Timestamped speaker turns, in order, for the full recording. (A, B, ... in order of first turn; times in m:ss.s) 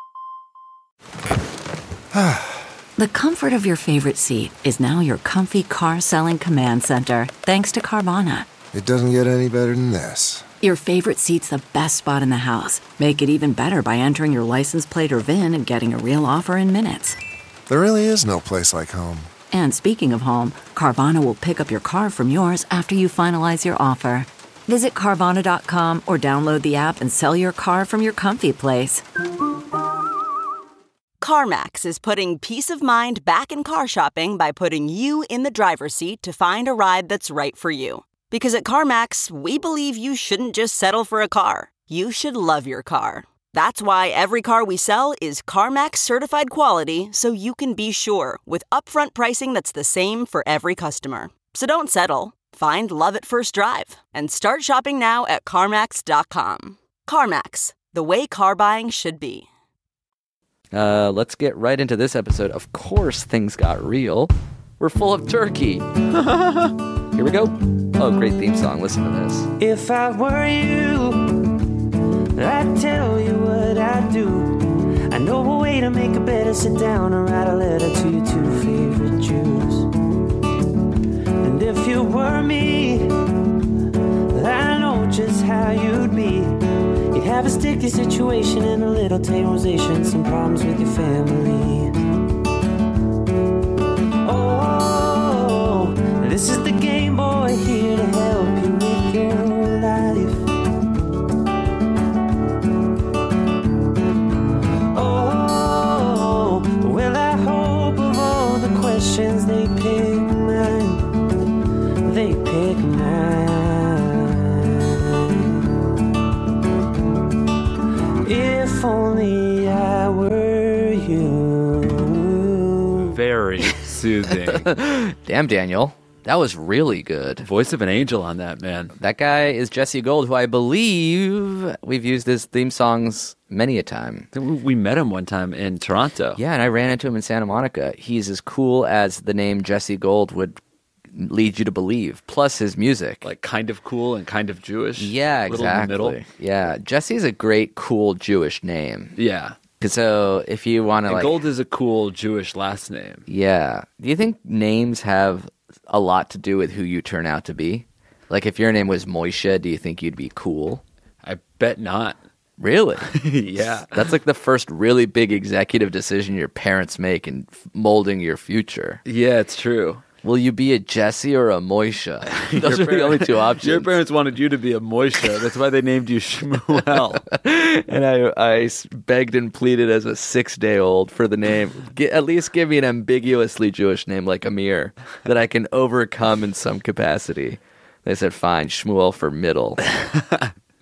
0:02.1-0:02.6 A
0:03.0-0:08.4 B
0:08.7-0:10.5 A
0:10.6-0:17.2 B
0:17.7-0:19.3 A
0:19.5-0:29.0 B
0:31.2-0:59.5 C
1:00.7-1:05.9 D
1:06.1-1:06.7 E
1:07.1-1:09.5 D
1:09.6-1:11.7 F
1:12.4-1:19.9 F
1:21.4-1:23.6 F
1:24.3-1:31.9 F
1:34.2-1:40.5 F
1:44.9-1:51.2 F
1:52.0-1:55.8 F
1:58.2-2:03.2 F
2:03.1-2:04.7 E
2:04.4-2:07.5 D
2:07.4-2:08.9 E
2:09.0-2:14.3 D
2:14.3-2:16.4 E
2:16.4-2:20.6 D
2:21.1-2:23.2 D
2:23.2-2:26.2 E
2:25.0-2:29.2 D
2:29.2-2:29.6 E
2:29.8-2:31.4 D
2:31.1-2:33.2 E
2:33.3-2:40.8 D
2:41.2-2:42.2 E
2:42.6-2:49.0 D
2:43.1-2:44.0 E
2:49.0-2:50.0 E
2:50.2-2:53.9 D
2:52.3-2:57.2 E
2:57.3-3:09.8 D